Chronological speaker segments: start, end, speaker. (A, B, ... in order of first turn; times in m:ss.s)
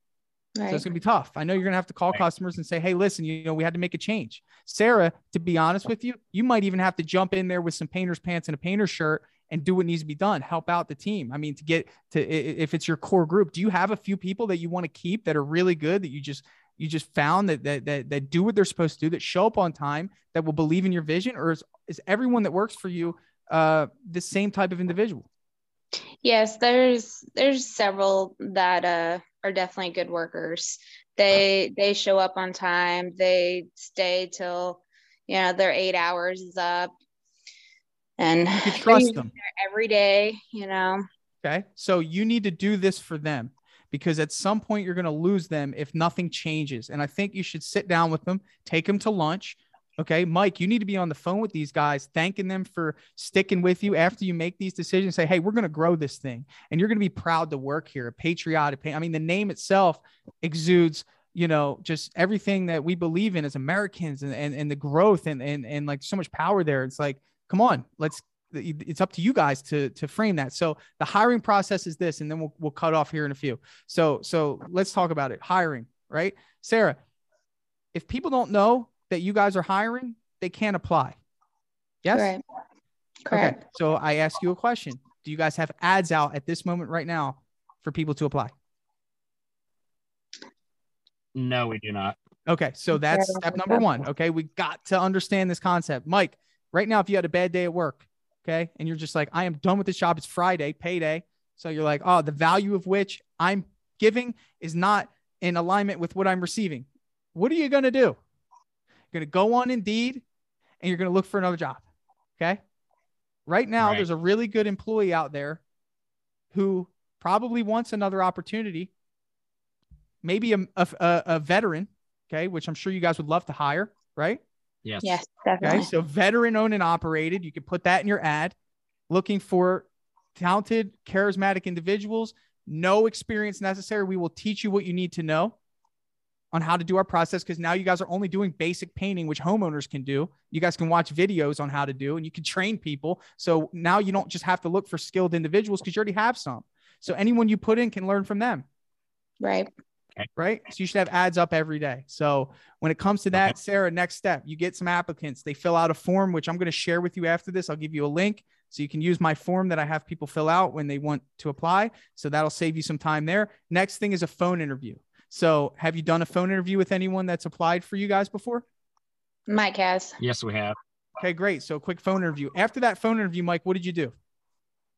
0:00.6-0:00.8 A
0:00.7-0:25.3 B
0:26.2-0:36.9 A
0:38.2-0:41.0 A
0:38.6-0:39.3 B
0:41.4-1:17.0 B
1:17.9-1:21.2 B
1:22.0-1:22.3 B
1:22.1-1:22.4 A
1:23.3-1:23.6 A
1:23.3-1:28.5 B
1:31.3-1:32.2 C
1:32.5-1:48.2 B
1:32.9-1:33.8 A
1:49.1-1:50.2 B
1:50.8-1:51.8 B
1:53.5-1:55.6 B
1:53.8-1:54.1 C
1:56.5-1:58.9 B
2:00.2-2:04.4 B
2:04.8-2:05.1 C
2:05.0-2:05.9 A
2:05.6-2:08.5 B
2:09.1-2:15.5 B
2:16.5-2:28.6 B
2:29.4-2:29.7 A
2:30.4-2:48.6 B
2:49.5-2:50.2 A
2:50.2-2:50.8 C
2:51.2-2:54.1 B